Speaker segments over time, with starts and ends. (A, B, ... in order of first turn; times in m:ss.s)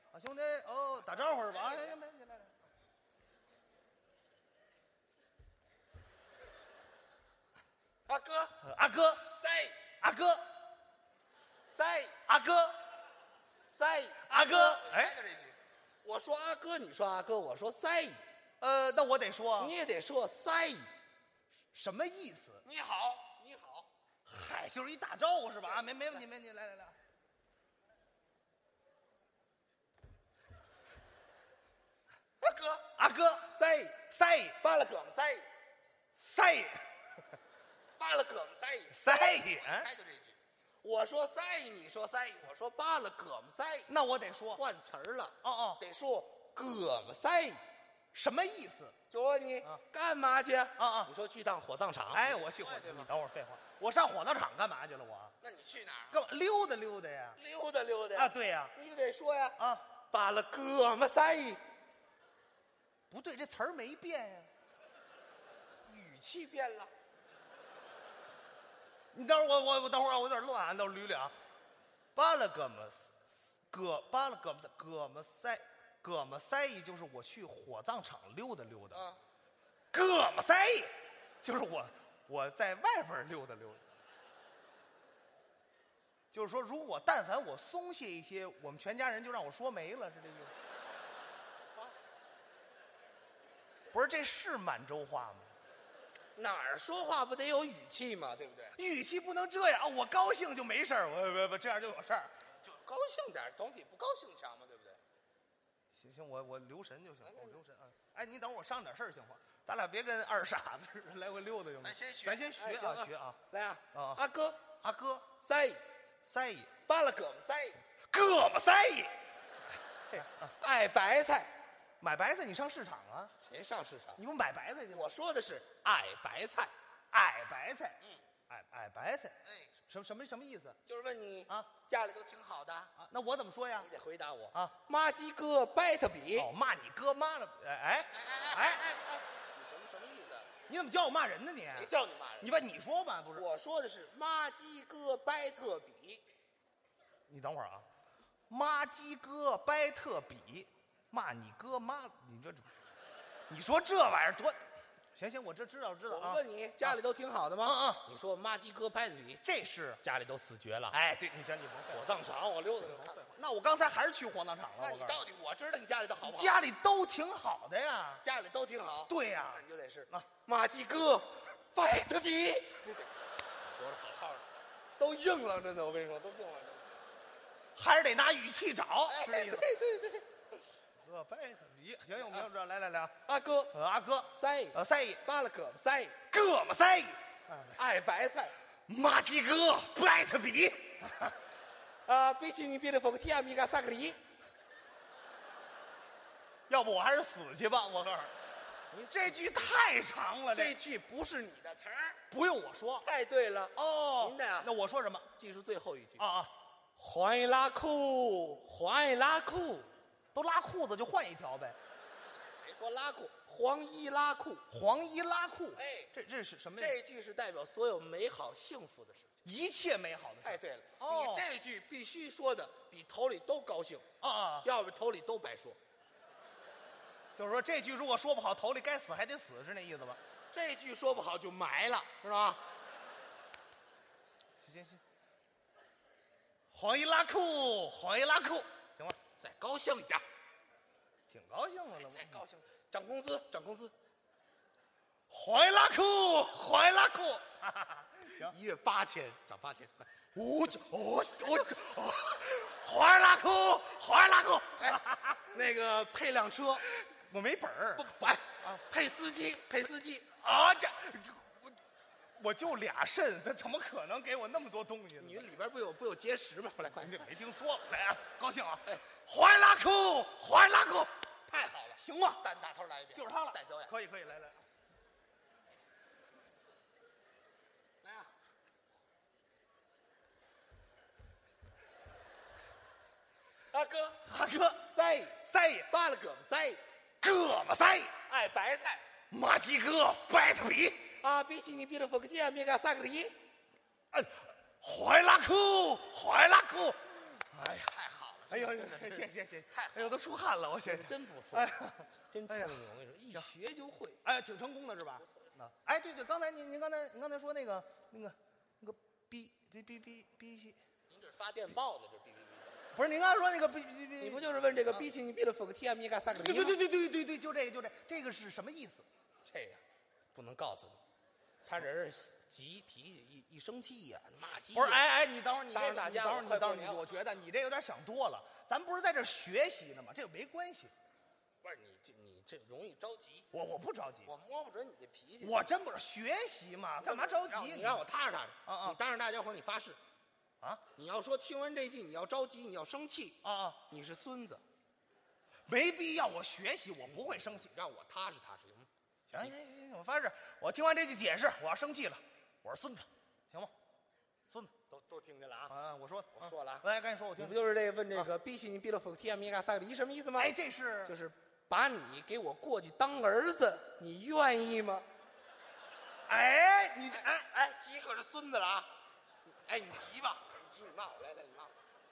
0:00.1-0:02.5 A
0:01.4-0:02.0 B
0:08.0-0:08.6 B
0:08.6-0:09.2 A
0:09.2-0:09.8 B
0:10.0-0:10.4 A
0:11.6-0:12.2 B
0:12.3-0:12.8 A
0:13.6-0:18.2 B
0:14.2-0:15.2 A
0:18.6-0:19.7 A
0:19.6-0:20.9 B
0:21.7-0:22.6 A
0:22.6-0:23.9 B
0:24.2-0:27.0 A
0:32.4-0:32.9 B
0:33.0-0:33.5 A
0:33.5-0:34.0 B
0:34.1-0:34.6 A
0:34.6-0:35.5 B
0:36.2-0:36.9 A
0:38.0-0:43.9 B
0:38.9-0:39.9 A
0:43.9-0:44.6 A
0:44.5-0:47.6 B
0:45.4-0:45.8 A
0:48.1-0:49.0 A
0:49.1-0:53.1 B
0:50.8-0:51.1 A
0:52.1-0:55.3 A
0:55.4-0:56.2 B
0:56.1-0:57.4 A
0:57.4-0:59.6 B
0:58.1-0:58.7 A
0:59.6-0:59.8 A
1:00.1-1:01.6 B
1:03.1-1:04.5 A
1:05.8-1:06.9 B
1:09.1-1:11.3 A
1:12.1-1:19.1 A
1:18.9-1:19.2 B
1:19.9-1:23.8 A
1:26.3-1:30.5 A
1:33.9-1:35.5 A
1:36.4-1:38.8 B
1:38.7-1:42.3 A
1:42.6-1:45.0 B
1:45.9-1:53.4 A
1:47.2-1:47.6 B
1:51.8-1:54.6 B
1:53.9-1:54.2 A
1:54.8-1:55.3 A
1:55.3-1:55.8 B
1:56.2-1:56.7 A
1:56.8-1:57.8 B
1:58.1-1:59.2 A
2:00.1-2:00.5 A
2:00.1-2:01.5 B
2:02.0-2:03.3 A
2:03.4-2:04.2 B
2:04.2-2:05.1 A
2:04.9-2:06.7 B
2:07.1-2:10.8 A
2:09.4-2:09.7 B
2:10.8-2:12.9 B
2:13.0-2:13.9 A
2:13.8-2:16.5 B
2:16.3-2:18.8 A
2:18.1-2:20.5 B
2:20.7-2:23.4 A
2:21.7-2:22.6 B
2:23.3-2:26.2 B
2:27.3-2:27.8 A
2:28.5-2:32.7 A
2:33.5-2:34.6 A
2:35.1-2:37.0 A
2:36.1-2:39.4 B
2:37.6-2:38.0 A
2:39.4-2:40.0 A
2:40.0-2:41.0 B
2:40.9-2:42.0 A
2:41.9-2:43.2 B
2:42.8-2:45.2 A
2:44.8-2:46.6 B
2:46.2-2:48.2 A
2:48.2-2:53.1 B
2:49.1-2:50.3 A
2:53.6-2:54.4 B
2:55.0-2:57.0 B
2:57.8-2:59.7 A
2:59.1-3:00.2 B
3:01.0-3:03.2 A
3:03.2-3:03.7 B
3:03.7-3:05.2 A
3:04.3-3:06.3 B
3:06.3-3:07.8 A
3:07.7-3:08.6 B
3:08.9-3:11.3 A
3:12.0-3:14.2 B
3:16.7-3:18.3 A
3:18.9-3:20.8 A
3:20.5-3:22.2 B
3:22.3-3:23.0 A
3:23.0-3:24.7 B
3:23.7-3:25.3 A
3:25.3-3:26.2 B
3:26.2-3:26.5 A
3:27.0-3:29.9 B
3:30.3-3:31.8 A
3:32.5-3:34.6 B
3:34.7-3:37.0 A
3:35.8-3:36.1 B
3:36.8-3:39.3 B
3:39.4-3:41.4 A
3:40.4-3:44.0 B
3:44.2-3:44.7 A
3:44.6-3:45.8 B
3:47.3-3:50.2 A
3:50.5-3:52.6 B
3:54.6-3:55.0 A
3:56.7-3:59.2 A
3:59.4-4:00.2 B
4:01.3-4:02.4 A
4:01.9-4:03.9 B
4:05.3-4:08.5 A
4:08.4-4:10.1 B
4:10.3-4:15.4 A
4:11.3-4:11.8 B
4:14.8-4:16.8 B
4:16.8-4:18.8 A
4:18.0-4:20.4 B
4:20.4-4:21.8 A
4:22.4-4:25.4 A
4:25.2-4:27.3 B
4:27.0-4:31.1 A
4:31.5-4:33.9 B
4:32.0-4:32.4 A
4:33.1-4:34.6 A
4:38.0-4:38.3 B
4:43.7-4:44.2 B
4:44.2-4:44.8 A
4:44.8-4:46.8 B
4:45.4-4:45.9 A
4:47.2-4:48.2 A
4:48.2-4:49.0 B
4:49.3-4:51.1 A
4:51.0-4:53.4 B
4:54.1-4:58.0 A
4:57.8-5:00.2 B
4:58.5-5:02.8 A
5:00.8-5:01.7 B
5:02.3-5:04.2 B
5:04.2-5:10.8 A
5:11.1-5:12.8 B
5:12.9-5:15.0 A
5:14.2-5:16.8 B
5:16.3-5:19.0 A
5:19.4-5:19.8 B
5:20.3-5:21.0 B
5:21.6-5:25.0 B
5:24.7-5:30.9 A
5:25.7-5:27.2 B
5:31.6-5:33.5 B
5:33.5-5:34.3 A
5:34.2-5:35.6 B
5:35.4-5:38.0 A
5:37.0-5:40.0 B
5:38.6-5:39.0 A
5:40.9-5:44.6 B
5:43.4-5:43.8 A
5:45.7-5:47.7 A
5:47.1-5:48.9 B
5:49.3-5:53.7 A
5:54.9-5:55.7 B
5:55.7-5:57.6 A
5:56.4-6:05.1 B
6:00.4-6:01.1 A
6:06.3-6:07.4 A
6:07.1-6:08.9 B
6:09.5-6:11.7 B